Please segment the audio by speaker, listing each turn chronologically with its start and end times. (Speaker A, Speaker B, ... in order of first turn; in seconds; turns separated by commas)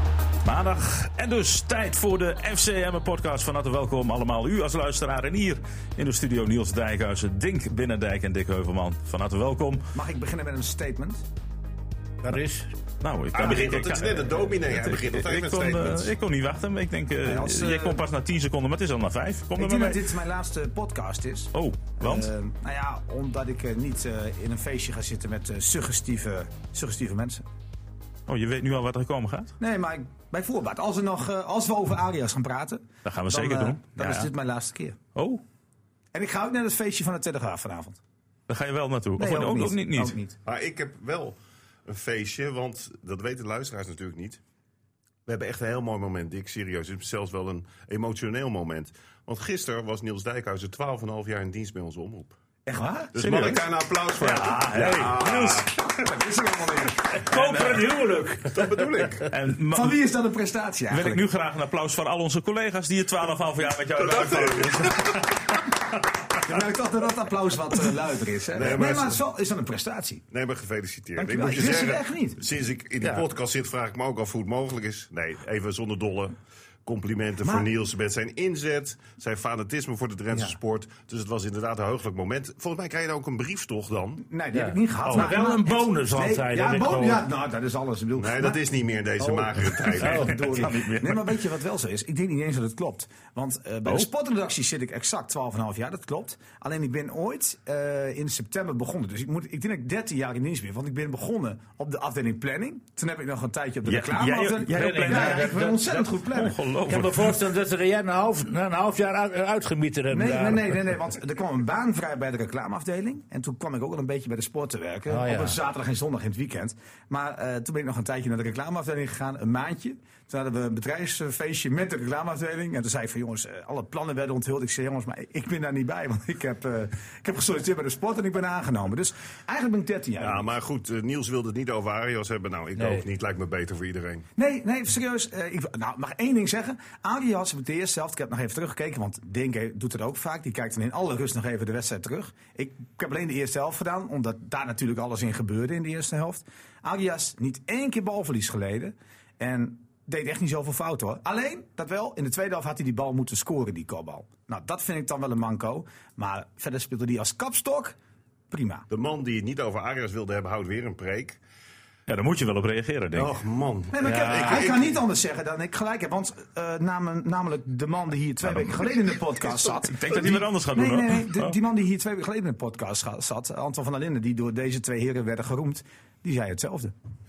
Speaker A: 0.4-9.9, Speaker B: 9.9-11.2, Speaker C: 12.2-12.7, Speaker A: 13.0-20.0, Speaker D: 13.3-16.1, Speaker B: 17.2-18.0, Speaker B: 19.6-27.4, Speaker A: 21.5-22.3, Speaker A: 28.3-29.5, Speaker B: 29.6-35.0, Speaker A: 33.0-34.3, Speaker A: 35.1-35.4, Speaker B: 36.1-38.0, Speaker A: 38.5-40.2, Speaker B: 39.2-40.4, Speaker D: 40.4-44.4, Speaker D: 45.2-52.4, Speaker B: 52.6-53.1, Speaker D: 53.1-56.1, Speaker A: 53.2-53.6, Speaker A: 54.2-55.7, Speaker B: 56.0-57.1, Speaker C: 57.1-58.8, Speaker A: 57.3-57.9, Speaker D: 58.5-59.3, Speaker A: 59.3-60.0, Speaker B: 59.7-61.3, Speaker A: 60.9-65.7, Speaker D: 64.0-65.4, Speaker B: 66.4-70.2, Speaker D: 68.5-69.2, Speaker D: 70.3-84.2, Speaker B: 71.2-72.4, Speaker B: 84.2-88.6, Speaker C: 84.5-87.2, Speaker D: 85.1-85.4, Speaker D: 88.2-90.3, Speaker B: 89.2-106.5, Speaker A: 90.0-91.4, Speaker C: 90.0-90.3, Speaker A: 103.8-105.8, Speaker C: 104.7-106.1, Speaker A: 106.3-107.3, Speaker C: 106.9-110.8, Speaker B: 110.1-130.5, Speaker C: 115.1-115.6, Speaker D: 130.2-134.3, Speaker C: 132.8-133.0, Speaker B: 134.4-157.9, Speaker B: 158.5-158.9, Speaker D: 158.9-161.4, Speaker A: 162.1-163.3, Speaker D: 163.1-164.9, Speaker B: 163.9-176.9, Speaker C: 164.0-164.6, Speaker A: 169.8-171.5